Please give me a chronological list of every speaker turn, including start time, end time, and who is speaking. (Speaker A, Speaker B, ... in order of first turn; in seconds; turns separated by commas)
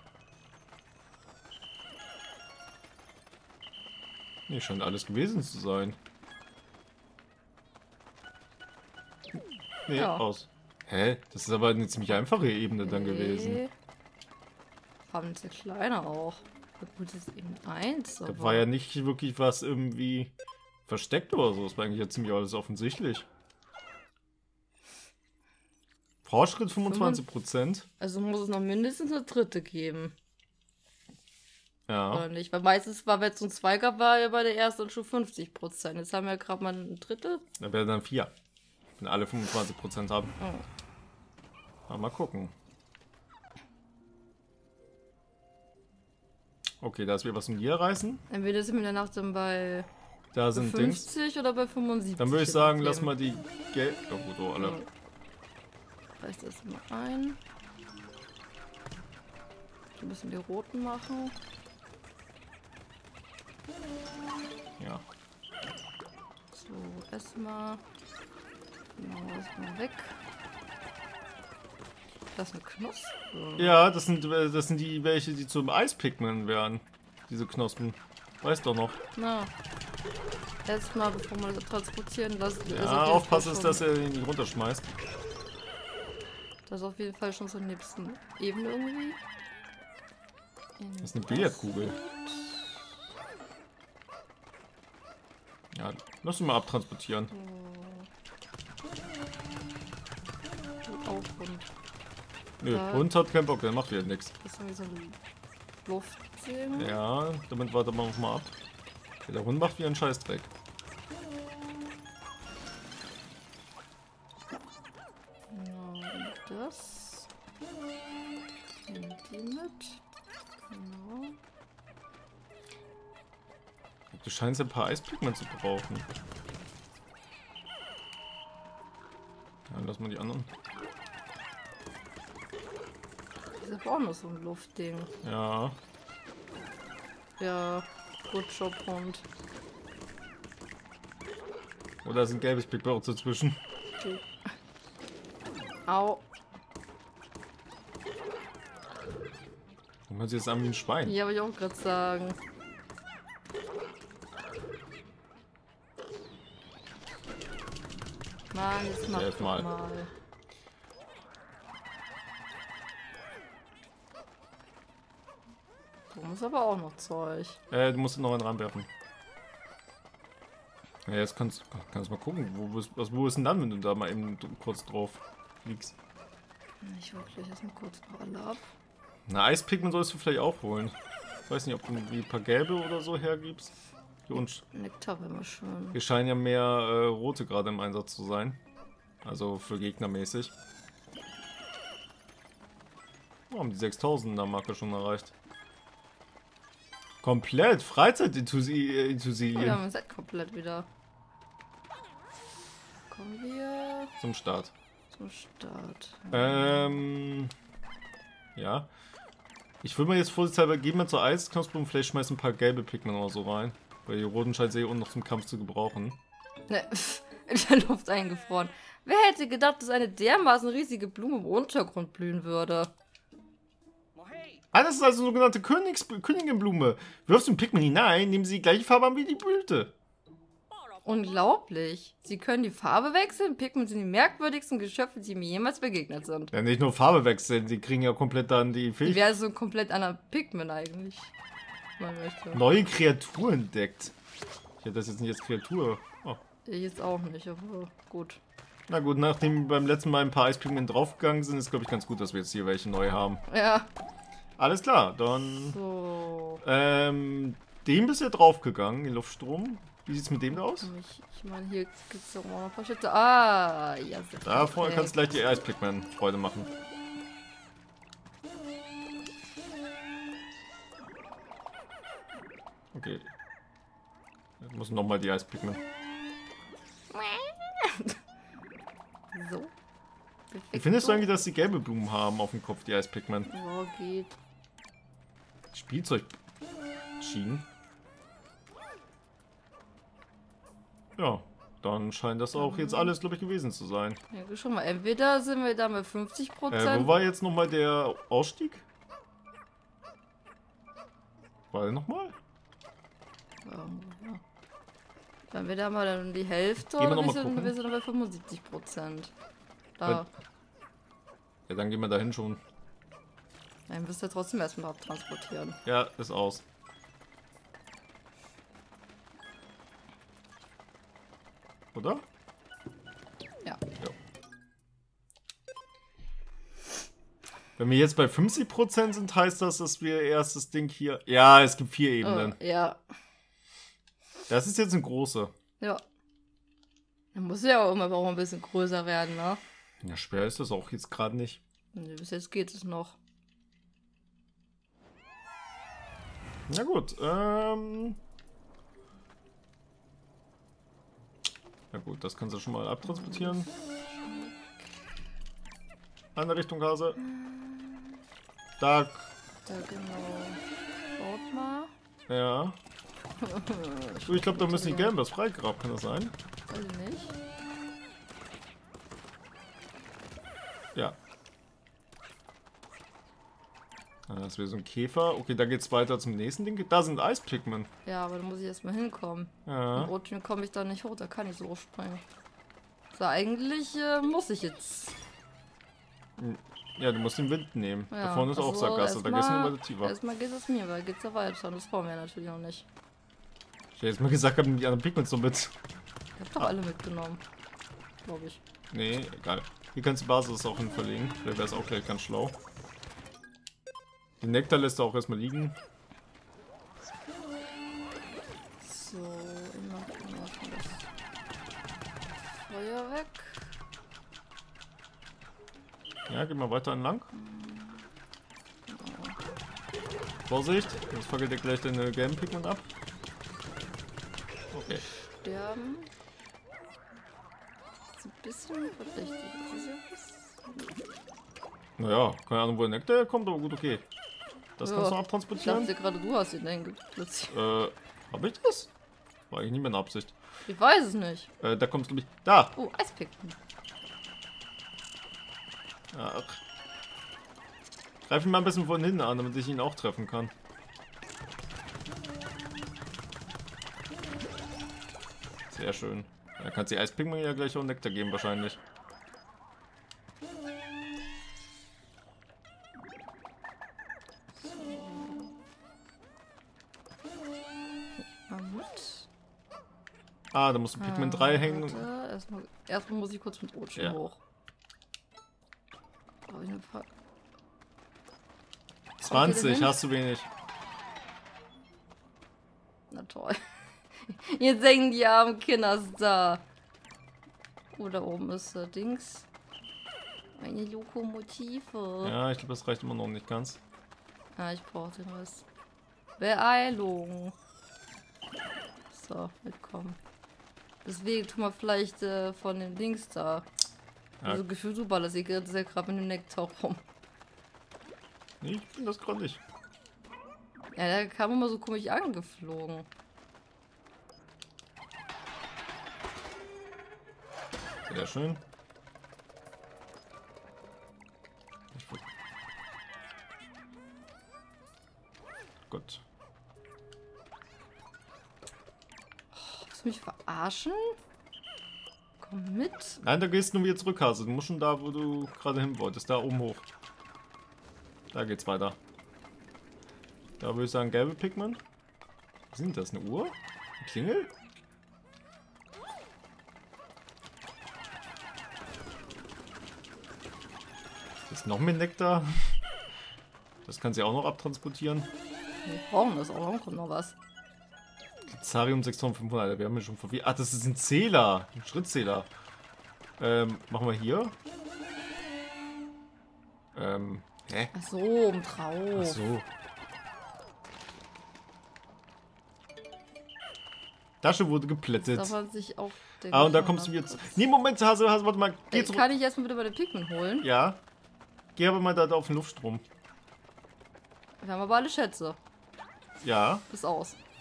Speaker A: 4.5-6.0, Speaker A: 9.9-13.6, Speaker B: 9.9-10.2, Speaker B: 12.8-13.7, Speaker B: 15.1-18.7, Speaker A: 18.3-20.3, Speaker A: 20.9-23.3, Speaker A: 26.2-27.9, Speaker B: 26.8-27.2, Speaker B: 28.0-30.1, Speaker A: 31.9-32.3, Speaker B: 32.1-37.4, Speaker A: 37.6-38.3, Speaker A: 39.0-40.3, Speaker B: 40.4-40.7, Speaker A: 41.9-42.5, Speaker A: 46.8-48.2, Speaker B: 48.3-49.9, Speaker A: 50.3-51.1, Speaker B: 50.5-53.1, Speaker A: 52.2-54.8, Speaker B: 54.6-54.9, Speaker B: 56.2-57.4, Speaker B: 60.0-61.4, Speaker B: 66.5-67.8, Speaker B: 69.0-70.2, Speaker B: 72.3-73.8, Speaker A: 73.6-79.0, Speaker B: 79.2-79.5, Speaker B: 80.7-83.9, Speaker A: 82.7-84.9, Speaker B: 86.7-89.2, Speaker B: 90.8-92.9, Speaker A: 91.0-92.0, Speaker A: 95.7-97.3, Speaker B: 97.3-98.1, Speaker B: 100.8-101.7, Speaker A: 102.6-104.3, Speaker B: 102.7-103.1, Speaker B: 104.4-105.2, Speaker B: 105.8-107.0, Speaker A: 106.8-108.5, Speaker A: 109.2-110.5, Speaker B: 115.5-117.3, Speaker B: 118.8-120.0, Speaker B: 120.7-121.4, Speaker A: 124.1-126.1, Speaker A: 129.7-130.5, Speaker B: 133.6-135.1, Speaker A: 135.2-135.8, Speaker B: 137.4-139.3, Speaker A: 142.1-143.6, Speaker B: 144.0-144.3, Speaker B: 145.9-146.2, Speaker A: 150.1-151.2, Speaker B: 151.1-152.4, Speaker B: 158.5-160.1, Speaker A: 159.1-159.7, Speaker B: 166.1-167.6, Speaker A: 167.7-168.9, Speaker A: 171.1-175.9, Speaker B: 176.8-178.8, Speaker A: 179.3-181.0, Speaker A: 181.5-183.8, Speaker A: 184.3-184.6, Speaker B: 184.3-186.0, Speaker A: 185.9-188.6, Speaker A: 189.2-190.5, Speaker A: 193.5-195.3, Speaker A: 197.2-199.8, Speaker B: 199.5-200.9, Speaker B: 203.1-204.1, Speaker A: 204.2-204.7, Speaker B: 205.1-207.0, Speaker A: 206.3-207.5, Speaker A: 208.6-208.9, Speaker A: 209.8-216.2, Speaker B: 216.7-222.9, Speaker A: 224.7-229.9, Speaker B: 231.1-236.5, Speaker A: 236.5-239.2, Speaker B: 239.0-241.3, Speaker B: 242.0-242.6, Speaker A: 242.5-244.1, Speaker A: 244.8-246.4, Speaker B: 246.7-248.4, Speaker A: 248.9-253.4, Speaker B: 253.5-253.9, Speaker A: 254.6-255.8, Speaker B: 255.7-256.6, Speaker A: 256.6-260.9, Speaker B: 260.5-265.2, Speaker A: 264.4-266.7, Speaker A: 272.9-273.3, Speaker A: 274.6-275.8, Speaker B: 277.1-278.2, Speaker B: 279.3-279.7, Speaker B: 280.5-281.3, Speaker A: 280.7-283.5, Speaker B: 283.5-284.4, Speaker A: 285.7-286.4, Speaker A: 287.2-287.7, Speaker A: 291.2-294.2, Speaker B: 292.6-293.1, Speaker B: 294.3-297.2, Speaker A: 296.7-298.9, Speaker A: 301.7-302.3, Speaker B: 303.6-304.4, Speaker B: 305.5-309.3, Speaker A: 306.8-307.8, Speaker B: 310.0-310.3, Speaker A: 311.7-312.6, Speaker B: 313.9-315.8, Speaker A: 315.9-316.6, Speaker A: 321.9-322.2, Speaker A: 327.8-332.6, Speaker B: 332.2-333.0, Speaker A: 334.5-335.5, Speaker B: 337.3-339.6, Speaker A: 340.0-341.6, Speaker B: 341.9-343.2, Speaker A: 346.7-348.2, Speaker A: 351.9-353.7, Speaker B: 353.0-355.1, Speaker A: 356.4-357.2, Speaker B: 357.2-358.2, Speaker A: 358.8-359.3, Speaker B: 359.7-360.6, Speaker B: 361.2-361.9, Speaker A: 362.3-362.8, Speaker B: 363.4-365.1, Speaker A: 364.3-366.3, Speaker B: 366.7-367.4, Speaker A: 374.3-377.9, Speaker B: 378.1-382.2, Speaker A: 379.7-380.1, Speaker B: 383.1-385.2, Speaker A: 386.4-390.1, Speaker B: 388.1-392.9, Speaker A: 393.9-395.7, Speaker B: 396.4-397.4, Speaker B: 398.2-398.6, Speaker A: 398.9-402.6, Speaker A: 404.4-405.8, Speaker B: 408.8-411.1, Speaker B: 412.4-413.7, Speaker A: 416.3-417.3, Speaker B: 417.3-418.1, Speaker B: 418.9-419.4, Speaker A: 420.5-422.9, Speaker A: 424.7-425.1, Speaker B: 424.9-426.1, Speaker B: 428.1-431.0, Speaker A: 432.0-434.1, Speaker A: 434.8-435.9, Speaker B: 434.8-437.6, Speaker A: 437.5-438.9, Speaker A: 439.5-440.3, Speaker B: 440.7-441.5, Speaker A: 441.6-442.8, Speaker B: 442.8-443.6, Speaker A: 446.1-446.6, Speaker A: 448.3-450.5, Speaker A: 455.7-458.8, Speaker B: 464.6-465.5, Speaker B: 468.4-469.3, Speaker A: 470.5-472.1, Speaker B: 471.0-474.4, Speaker B: 476.5-477.1, Speaker A: 479.2-480.5, Speaker B: 479.2-480.0, Speaker B: 483.1-483.6, Speaker B: 484.1-486.6, Speaker B: 487.9-489.5, Speaker B: 490.6-492.4, Speaker A: 492.2-493.8, Speaker B: 494.6-495.6, Speaker B: 496.4-497.6, Speaker B: 499.1-500.2, Speaker B: 501.0-503.7, Speaker B: 504.4-507.0, Speaker A: 508.6-509.6, Speaker B: 510.9-513.1, Speaker A: 518.1-518.6, Speaker A: 521.9-522.2, Speaker A: 525.9-526.2, Speaker B: 529.5-531.2, Speaker B: 532.4-533.2, Speaker A: 533.2-536.8, Speaker A: 538.3-539.0, Speaker A: 540.6-541.8, Speaker A: 542.7-544.5, Speaker A: 551.5-552.8, Speaker A: 553.9-555.3, Speaker B: 555.9-557.4, Speaker A: 558.5-562.5, Speaker A: 563.4-564.5, Speaker A: 566.9-567.9, Speaker B: 567.9-569.4, Speaker A: 569.1-569.7, Speaker A: 574.4-575.5, Speaker B: 575.2-577.6, Speaker A: 576.5-579.2, Speaker B: 578.9-580.7, Speaker A: 580.6-581.0, Speaker A: 581.8-583.0, Speaker B: 584.6-585.6, Speaker A: 586.4-586.8, Speaker B: 586.9-587.4